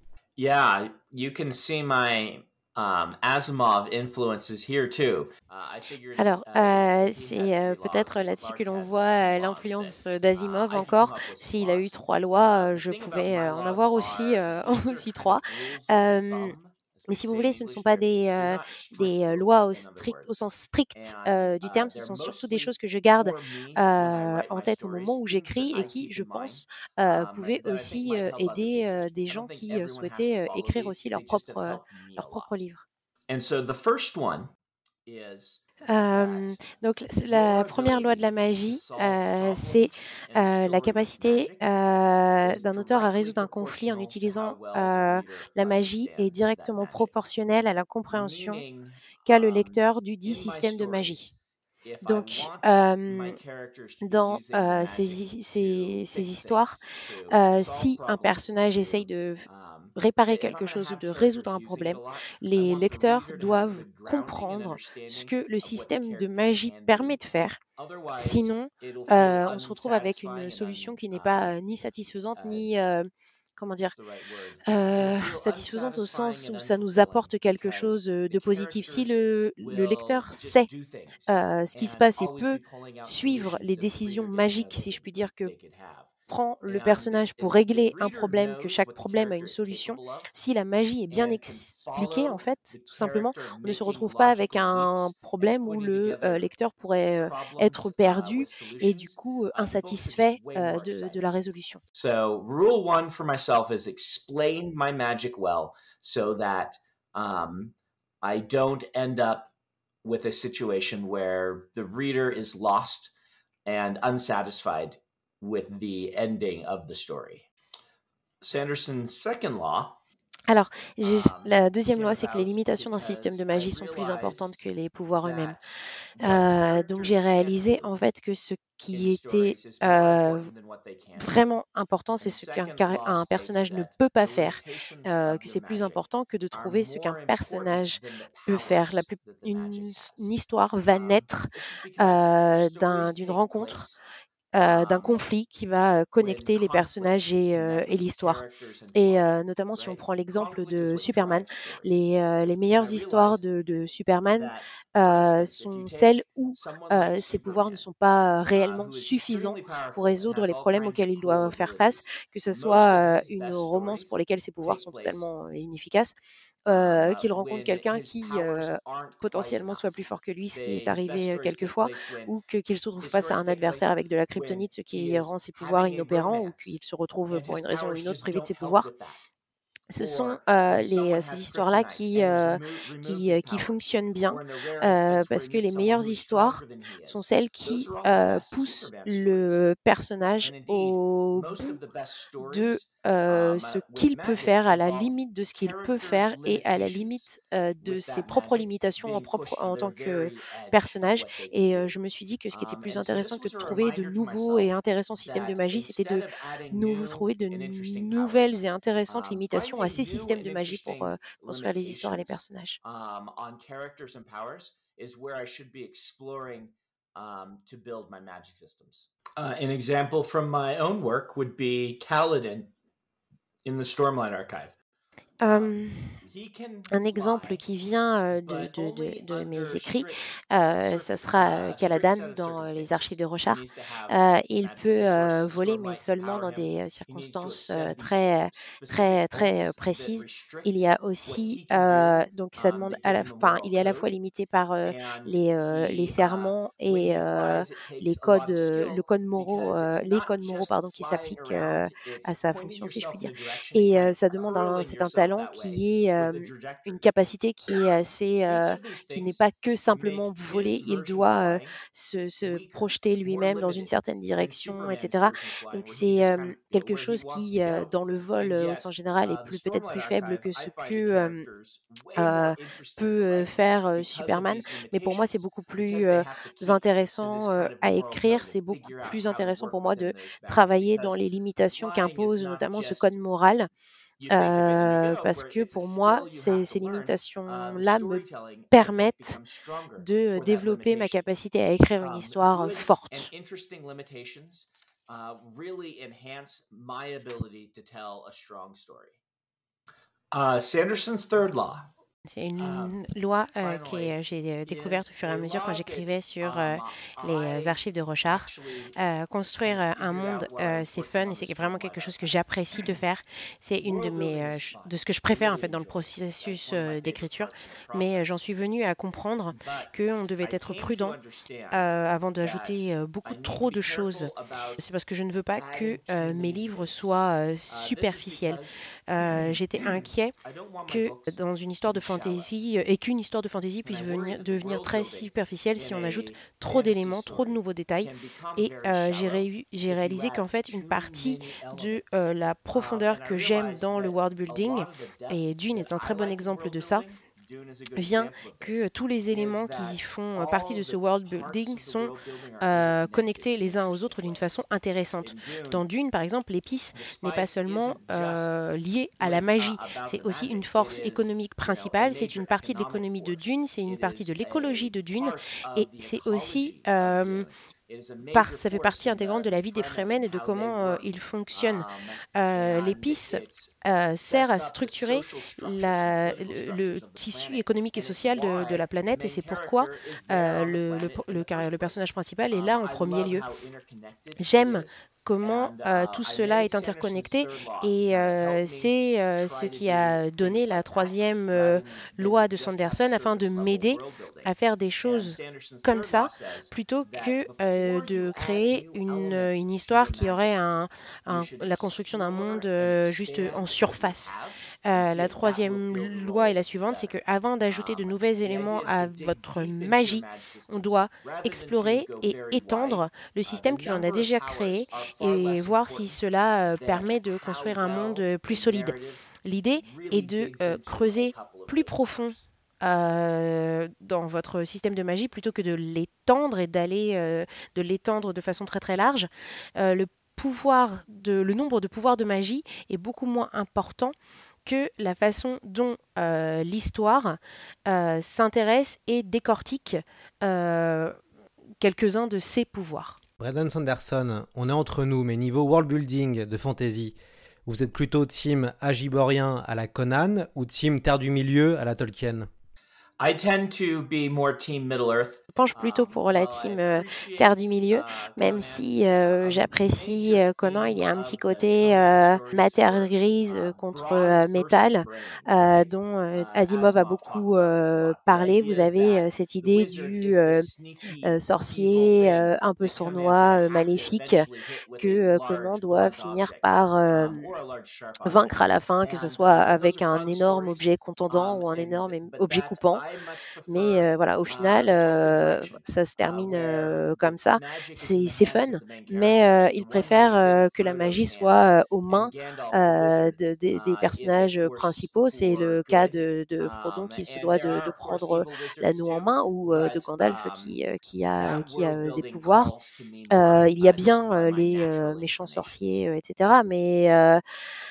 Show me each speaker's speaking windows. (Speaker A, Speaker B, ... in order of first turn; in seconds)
Speaker A: 0.4-20.4, 20.9-32.5, 33.3-34.5, 35.1-36.6, 37.3-41.7, 42.4-47.1, 48.1-67.2, 67.8-71.5, 72.3-72.7, 73.9-86.1, 86.7-90.3, 91.1-96.5, 97.2-101.2, 102.0-109.5, 110.0-113.1, 113.7-117.5, 118.4-120.0, 121.0-124.5, 125.2-127.9, 128.9-131.4, 132.2-140.3, 140.9-144.0, 144.6-145.3, 146.2-152.0, 152.7-153.4, 154.4-157.8, 158.6-165.3, 166.7-172.3, 173.0-176.8, 177.3-179.2, 180.0-183.7, 184.3-189.6, 190.4-197.3, 197.8-201.9, 202.5-222.7, 223.7-224.8, 225.5-227.6, 228.3-230.2, 230.8-240.7, 241.2-244.1, 244.8-257.1, 258.5-261.8, 262.4-283.2, 284.2-291.3, 292.0-299.2, 300.3-301.9, 302.6-303.0, 303.6-307.8, 308.3-308.9, 309.6-312.3, 313.8-318.4, 319.5-324.8, 325.6-327.1, 327.7-331.4, 331.9-332.5, 333.9-354.5, 355.2-355.9, 356.9-358.5, 359.2-394.5, 395.0-400.6, 401.3-407.2, 407.7-416.2, 416.8-422.4, 453.2-500.8, 501.4-506.0
Speaker B: 6.2-16.6, 17.1-32.8, 35.9-48.6, 49.3-51.3, 52.0-53.4, 54.0-56.8, 57.3-67.6, 68.2-73.9, 74.7-80.7, 81.3-85.5, 86.3-101.8, 120.5-125.6, 126.2-130.5, 131.2-143.9, 144.6-148.4, 148.9-166.1, 166.7-178.9, 179.9-191.8, 192.4-212.8, 225.4-226.2, 226.9-271.4, 272.2-283.7, 284.3-289.4, 290.0-293.3, 302.3-321.2, 321.7-330.3, 330.9-347.1, 348.0-367.5, 368.3-371.9, 372.4-383.4, 384.4-404.3, 404.9-434.1, 434.7-441.2, 441.8-443.2, 455.5-470.7, 471.2-474.5, 475.0-477.5, 478.2-483.0, 483.7-502.7, 503.3-507.4
Speaker C: 443.4-452.5